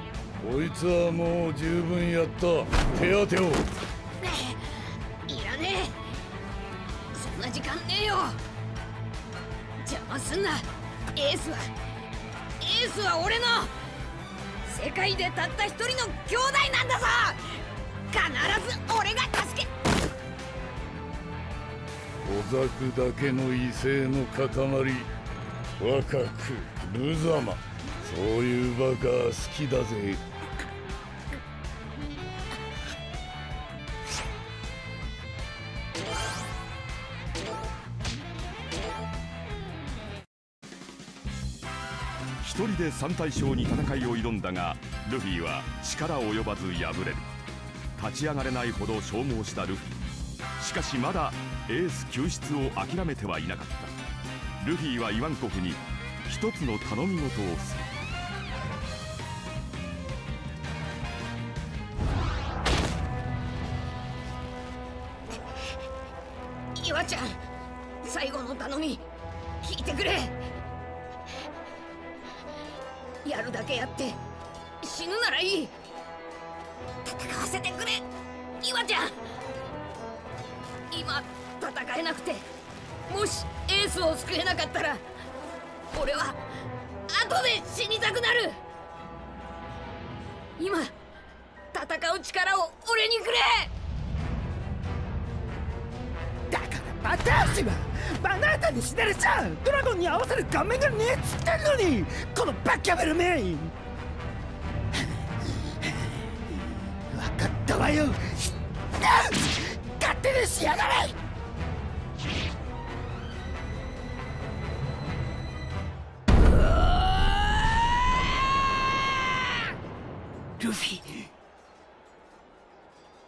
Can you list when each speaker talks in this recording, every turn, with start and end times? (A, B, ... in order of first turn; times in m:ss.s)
0:00.4-0:03.6 A
0:04.2-0:04.7 B
0:05.3-0:06.0 B
0:07.1-0:08.4 B
0:09.8-0:11.7 B
0:12.6-0:13.7 B
0:14.6-0:19.7 B
0:22.2-0:25.1 A
0:25.8-0:30.2 A
0:42.4-0:47.3 C
0:48.0-0:53.9 C
0:54.6-0:58.0 C
1:06.7-1:07.4 B
1:08.0-1:09.0 B
1:09.6-1:10.4 B
1:13.2-1:14.2 B
1:14.8-1:15.7 B
1:17.0-1:18.0 B
1:18.6-1:19.2 B
1:20.9-1:22.4 B
1:23.1-1:25.0 B
1:25.9-1:26.4 B
1:27.1-1:28.6 B
1:30.6-1:30.9 B
1:31.7-1:33.7 B
1:36.5-1:43.7 D
1:47.0-1:51.1 D
2:00.8-2:01.1 B